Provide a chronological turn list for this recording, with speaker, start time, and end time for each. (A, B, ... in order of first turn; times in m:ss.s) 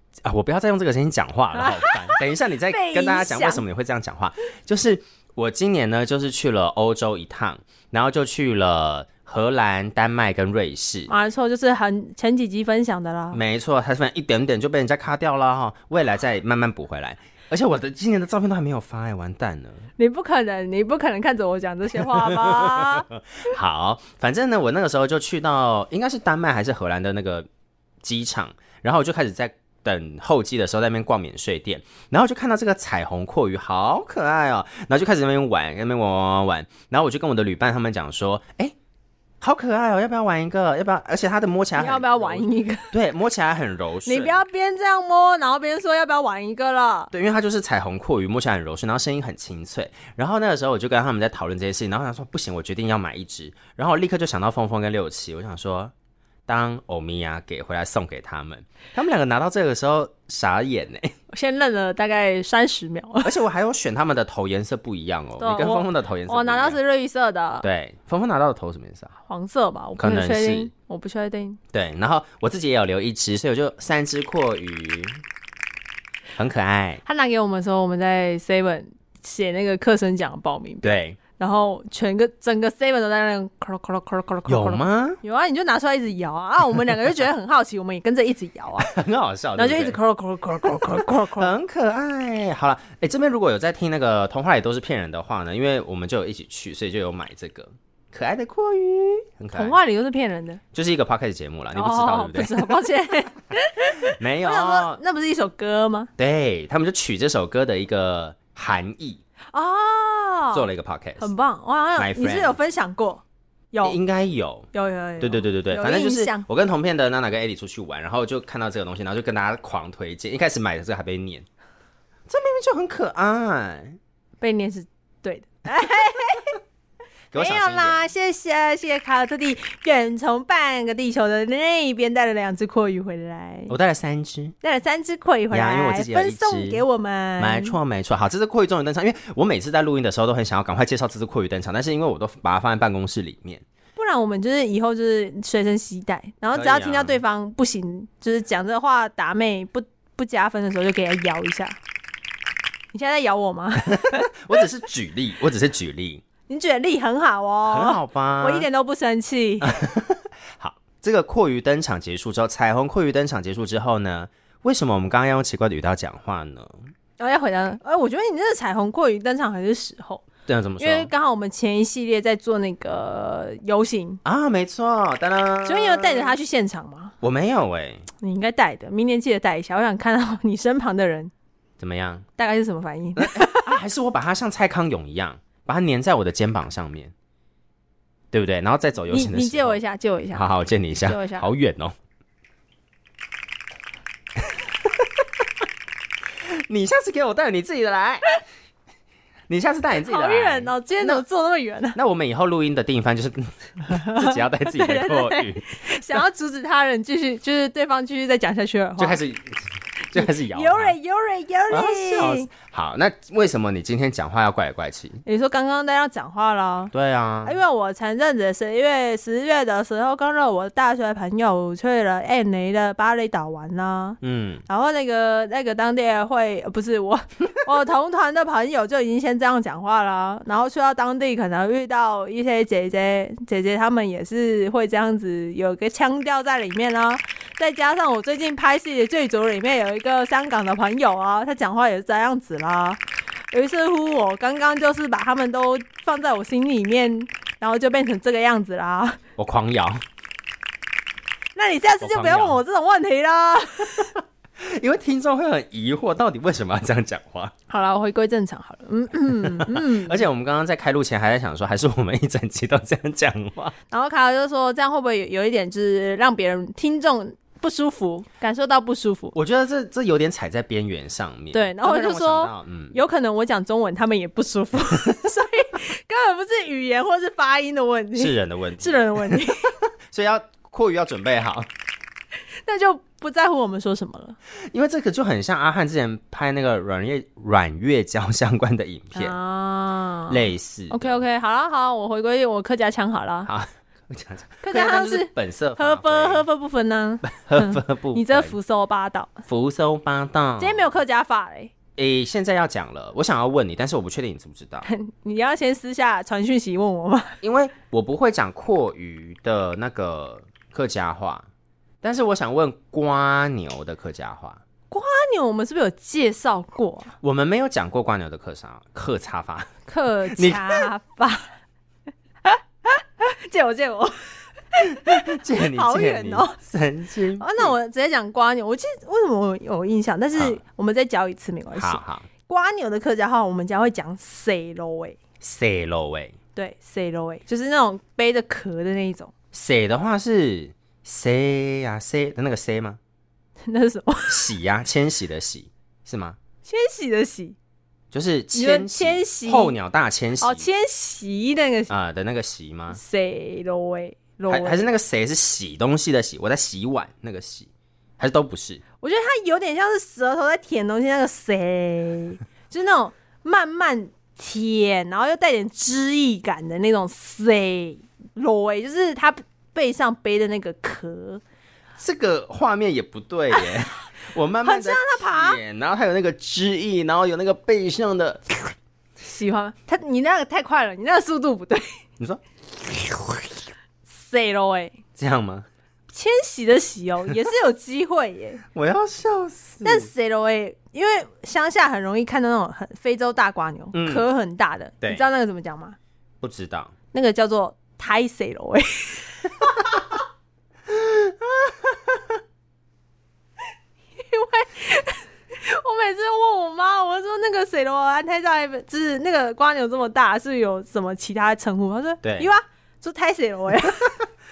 0:00.2-0:11.1 A
0:01.6-0:03.6 B
0:11.1-0:13.4 B
0:13.3-0:19.9 A
0:20.0-0:23.1 B
0:21.9-0:27.5 A
0:28.0-0:38.8 A
0:39.4-0:44.4 A
0:41.8-0:42.9 B
0:44.0-0:47.1 B
0:47.1-0:55.9 A
0:56.5-1:01.2 A
1:01.3-1:03.4 B
1:03.2-1:06.8 A
1:05.4-1:07.7 B
1:07.6-1:09.1 A
1:09.3-1:11.6 B
1:10.0-1:10.7 A
1:11.7-1:15.2 A
1:16.4-1:17.0 A
1:17.0-1:28.9 B
1:20.8-1:21.2 A
1:24.5-1:25.2 A
1:28.8-1:30.0 A
1:29.6-1:31.5 B
1:30.6-1:39.8 A
1:39.5-1:40.6 B
1:40.7-1:42.8 A
1:41.7-1:46.1 B
1:44.2-1:45.0 A
1:46.2-1:49.2 A
1:49.5-1:50.6 B
1:50.5-1:51.3 A
1:51.2-1:54.0 B
1:52.0-1:52.6 A
1:53.8-1:54.7 A
1:54.7-1:56.4 B
1:55.2-2:01.5 A
2:02.3-2:04.0 A
2:04.4-2:06.6 B
2:07.3-2:08.1 A
2:07.3-2:13.7 B
2:13.7-2:14.6 A
2:14.6-2:17.8 B
2:15.5-2:16.8 A
2:17.4-2:23.6 A
2:24.0-2:31.8 B
2:26.5-2:27.2 A
2:32.9-2:34.3 B
2:33.8-2:36.2 A
2:36.5-2:39.7 B
2:37.7-2:38.7 A
2:39.6-2:46.8 A
2:47.2-2:50.3 B
2:50.5-2:51.1 A
2:50.8-2:54.2 B
2:54.2-2:56.4 A
2:55.6-2:57.1 B
2:57.2-2:58.1 A
2:58.2-3:01.3 B
3:01.8-3:02.3 A
3:02.4-3:03.8 B
3:03.2-3:07.1 A
3:08.3-3:09.8 A
3:09.1-3:10.5 B
3:10.3-3:11.9 A
3:11.0-3:11.5 B
3:16.5-3:18.4 A
3:19.5-3:21.2 A
3:20.0-3:22.0 B
3:22.0-3:26.2 A
3:23.9-3:29.2 B
3:29.0-3:31.0 A
3:30.2-3:32.5 B
3:31.7-3:35.2 A
3:35.3-3:36.9 B
3:36.9-3:37.6 A
3:37.4-4:03.0 B
3:44.2-3:44.6 A
4:03.5-4:09.2 B
4:09.4-4:10.0 A
4:11.6-4:14.1 B
4:12.0-4:12.6 A
4:14.6-4:17.5 A
4:17.7-4:20.2 B
4:19.4-4:23.8 A
4:23.9-4:29.4 B
4:29.4-4:33.0 A
4:31.5-4:39.7 B
4:38.2-4:39.5 A
4:40.1-4:41.7 A
4:42.6-4:44.4 B
4:44.7-4:49.4 A
4:49.2-4:53.5 B
4:50.3-4:51.2 A
4:53.5-4:56.4 A
4:54.6-4:59.4 B
4:57.2-4:58.6 A
4:59.5-5:00.9 A
5:00.6-5:01.7 B
5:02.0-5:04.9 A
5:04.8-5:07.4 B
5:07.4-5:11.5 A
5:12.0-5:14.6 A
5:14.9-5:17.2 B
5:17.2-5:19.7 A
5:19.9-5:21.5 B
5:20.3-5:20.9 A
5:22.4-5:26.6 B
5:24.9-5:27.7 A
5:27.4-5:35.2 B
5:31.8-5:32.3 A
5:35.4-5:36.4 A
5:36.6-5:39.3 B
5:39.5-5:43.0 A
5:43.7-5:44.5 B
5:44.3-5:46.4 A
5:46.6-5:47.6 B
5:48.1-5:50.7 A
5:48.5-5:49.8 B
5:50.4-5:51.9 B
5:51.9-5:53.0 A
5:52.9-5:54.8 B
5:54.5-5:58.8 A
5:59.0-6:11.4 B
6:12.0-6:18.4 A
6:13.5-6:13.8 B
6:14.6-6:15.6 B
6:19.2-6:22.0 B
6:24.1-6:25.0 B
6:25.2-6:25.7 A
6:26.1-6:28.6 B
6:28.7-6:30.1 A
6:29.8-6:36.0 B
6:33.9-6:34.3 A
6:36.4-6:36.9 A
6:37.1-6:40.0 B
6:40.9-6:42.2 A
6:44.2-6:54.1 B
6:52.2-6:52.5 A